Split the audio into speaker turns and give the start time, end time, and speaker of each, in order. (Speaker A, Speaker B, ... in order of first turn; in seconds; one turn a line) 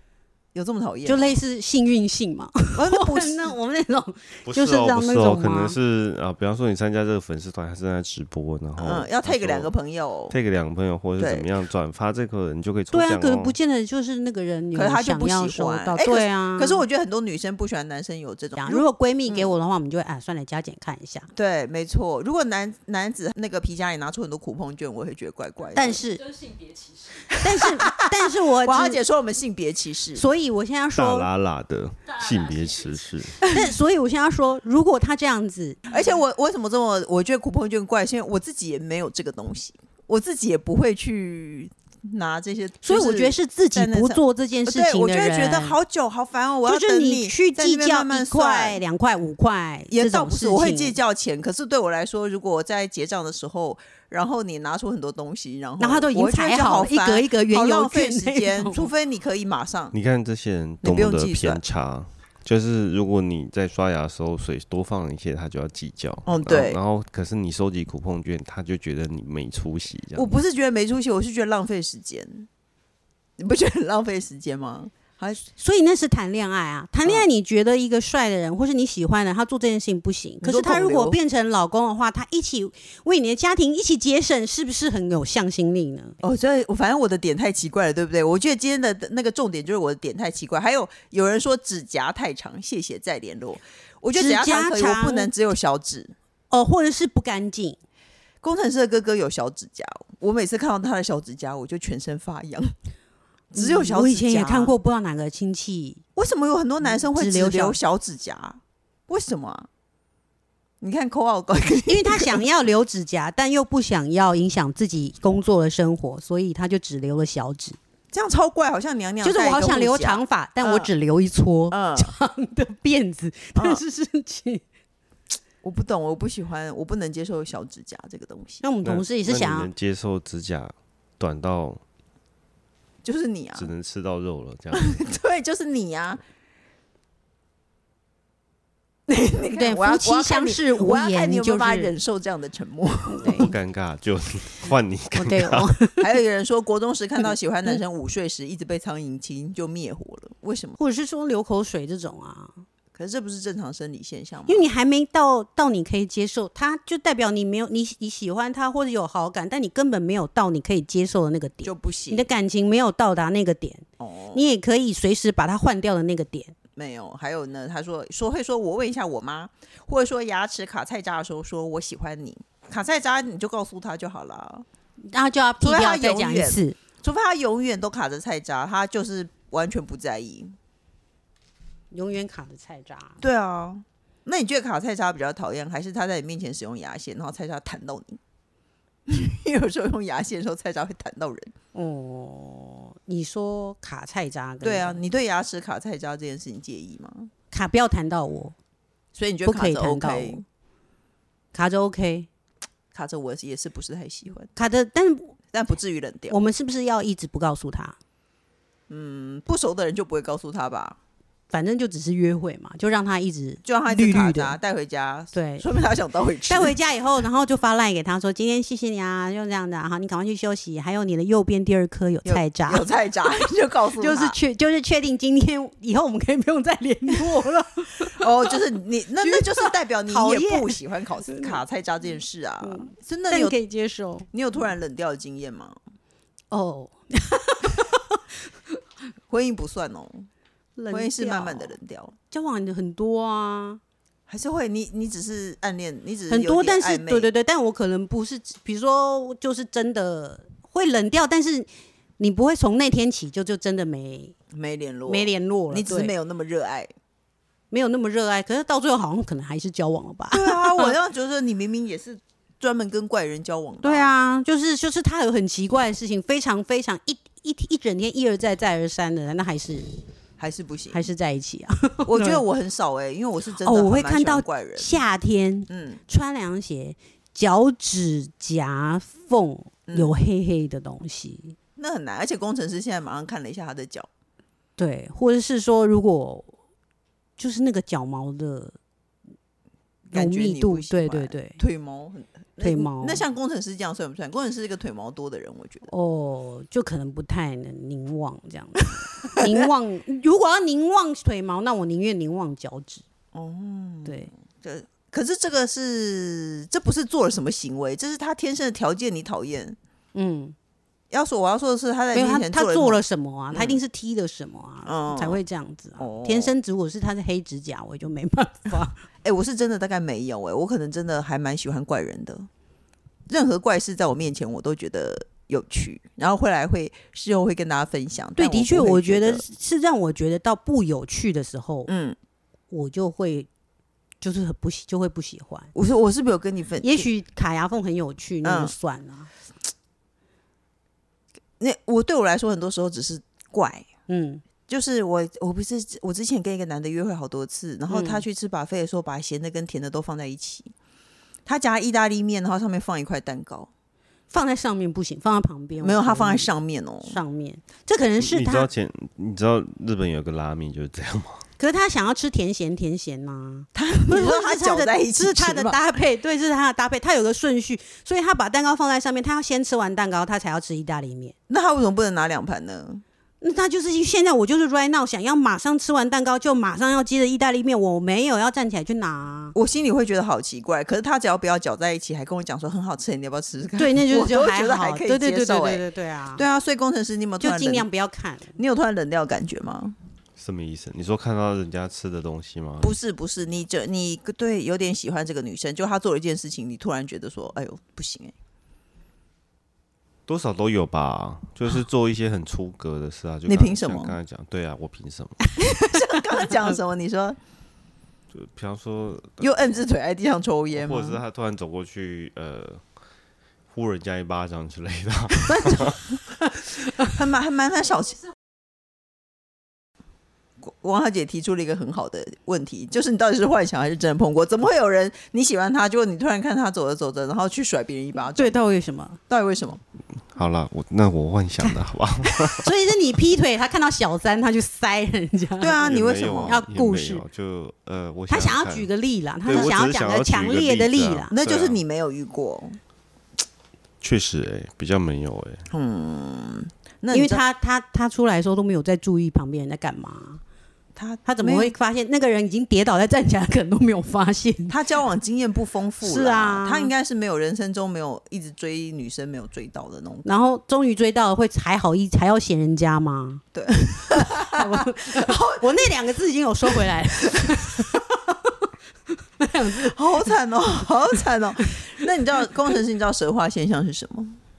Speaker A: 0.5-1.4
Speaker B: 1.1-5.8
Speaker A: 2.7-3.5
Speaker C: 4.5-9.7
Speaker A: 8.8-10.3
Speaker C: 10.3-13.6
Speaker A: 11.2-11.5
Speaker B: 12.9-16.8
Speaker A: 14.7-19.5
Speaker B: 18.6-21.3
Speaker A: 21.3-26.0
Speaker B: 25.7-26.6
Speaker A: 27.3-30.2
Speaker B: 27.3-29.0
Speaker B: 30.1-31.3
Speaker C: 30.9-33.4
Speaker B: 33.4-35.8
Speaker A: 35.9-48.8
Speaker B: 42.8-45.8
Speaker B: 46.6-51.0
Speaker A: 49.9-59.9
Speaker B: 55.8-58.9
Speaker C: 59.9-70.3
Speaker A: 60.8-61.6
Speaker A: 66.2-66.8
Speaker A: 70.1-72.5
Speaker A: 73.4-75.4
Speaker B: 75.5-86.2
Speaker A: 80.4-81.2
Speaker A: 86.2-96.1
Speaker B: 94.1-95.3
Speaker B: 96.5-97.8
Speaker A: 98.4-102.7
Speaker A: 103.5-104.7
Speaker B: 103.5-106.0
Speaker A: 106.2-109.7
Speaker B: 106.8-107.8
Speaker A: 110.8-112.4
Speaker B: 111.9-117.8
Speaker A: 118.1-120.9
Speaker B: 119.2-124.6
Speaker A: 121.7-122.1
Speaker A: 123.5-123.8
Speaker A: 125.6-128.6
Speaker B: 128.6-129.7
Speaker C: 128.8-131.8
Speaker A: 133.0-133.7
Speaker C: 133.6-135.0
Speaker A: 134.7-136.2
Speaker A: 139.1-143.5
Speaker B: 139.4-141.9
Speaker B: 143.1-143.5
Speaker C: 143.2-145.7
Speaker B: 145.1-146.1
Speaker A: 146.0-150.8
Speaker B: 150.8-152.6
Speaker A: 152.9-154.7
Speaker B: 154.5-166.5
Speaker A: 161.6-162.3
Speaker A: 164.0-164.4
Speaker A: 166.8-174.6
Speaker B: 175.1-176.8
Speaker A: 175.6-180.5
Speaker B: 181.9-183.2
Speaker A: 183.2-188.2
Speaker A: 189.1-191.5
Speaker B: 191.7-195.0
Speaker A: 194.6-197.3
Speaker B: 197.5-198.5
Speaker A: 199.2-200.4
Speaker B: 199.4-200.4
Speaker B: 201.5-202.3
Speaker A: 202.9-204.5
Speaker B: 204.6-205.3
Speaker A: 205.5-206.4
Speaker B: 206.3-207.9
Speaker A: 208.9-211.0
Speaker B: 211.5-214.6
Speaker A: 213.6-216.7
Speaker B: 215.3-215.7
Speaker B: 216.5-222.9
Speaker A: 222.2-224.3
Speaker B: 224.0-228.6
Speaker A: 228.2-233.5
Speaker B: 229.2-231.6
Speaker B: 232.6-234.3
Speaker A: 234.3-235.8
Speaker B: 236.5-238.2
Speaker A: 239.3-240.3
Speaker B: 240.8-241.7
Speaker A: 240.9-242.1
Speaker B: 242.3-243.8
Speaker A: 244.3-247.3
Speaker B: 246.3-251.7
Speaker B: 252.2-254.3
Speaker A: 254.5-256.9
Speaker B: 255.1-256.1
Speaker B: 257.7-260.9
Speaker A: 260.3-264.1
Speaker B: 263.8-269.9
Speaker A: 270.4-271.1
Speaker B: 270.9-272.4
Speaker A: 272.1-274.9
Speaker B: 273.6-281.6
Speaker A: 275.7-276.0
Speaker A: 279.9-280.1
Speaker A: 281.8-284.1
Speaker B: 284.8-286.5
Speaker B: 287.4-288.7
Speaker B: 290.1-291.6
Speaker A: 290.1-295.9
Speaker B: 292.6-293.2
Speaker B: 295.9-303.0
Speaker A: 299.3-299.6
Speaker A: 303.3-309.8
Speaker B: 310.1-310.5
Speaker A: 311.1-313.0
Speaker B: 312.1-319.0
Speaker A: 313.5-313.8
Speaker A: 314.8-315.4
Speaker A: 316.0-316.5
Speaker A: 319.2-322.5
Speaker A: 323.3-329.4
Speaker B: 328.4-331.9
Speaker A: 331.9-332.1
Speaker B: 332.7-333.5
Speaker B: 334.2-335.7
Speaker A: 335.7-337.1
Speaker B: 336.8-339.3
Speaker A: 338.4-338.7
Speaker A: 341.6-343.9
Speaker B: 344.1-344.4
Speaker A: 344.7-350.7
Speaker B: 347.9-348.2
Speaker A: 351.4-353.7
Speaker B: 354.3-356.5
Speaker A: 355.8-357.2
Speaker B: 357.0-358.7
Speaker C: 358.2-361.4
Speaker B: 361.6-371.3
Speaker A: 363.7-365.8
Speaker A: 371.5-373.0
Speaker B: 373.4-379.5
Speaker A: 379.5-385.8
Speaker B: 383.8-386.4
Speaker A: 386.3-387.9
Speaker B: 387.4-388.5
Speaker A: 388.6-389.9
Speaker C: 390.4-392.9
Speaker A: 392.8-398.3
Speaker C: 400.3-405.5
Speaker A: 403.5-404.1
Speaker A: 405.6-407.4
Speaker C: 408.3-409.5
Speaker A: 409.4-411.2
Speaker C: 410.7-412.8
Speaker C: 413.7-416.0
Speaker B: 415.5-415.9
Speaker A: 417.0-418.2
Speaker A: 420.6-428.6
Speaker B: 428.4-429.2
Speaker A: 429.3-429.8
Speaker C: 430.3-432.7
Speaker B: 431.6-435.9
Speaker A: 435.6-436.6
Speaker C: 435.8-438.9
Speaker B: 436.4-437.2
Speaker B: 438.3-441.3
Speaker C: 439.4-441.8
Speaker A: 439.5-439.8
Speaker A: 441.3-442.8
Speaker C: 444.0-445.6
Speaker A: 445.7-447.4
Speaker B: 447.1-450.4
Speaker A: 450.9-451.7
Speaker B: 451.2-454.8
Speaker A: 454.7-460.3
Speaker B: 456.0-456.9
Speaker B: 460.2-463.4
Speaker A: 463.5-465.7
Speaker B: 463.9-468.5
Speaker A: 467.4-467.8
Speaker B: 469.4-470.3
Speaker A: 469.8-474.4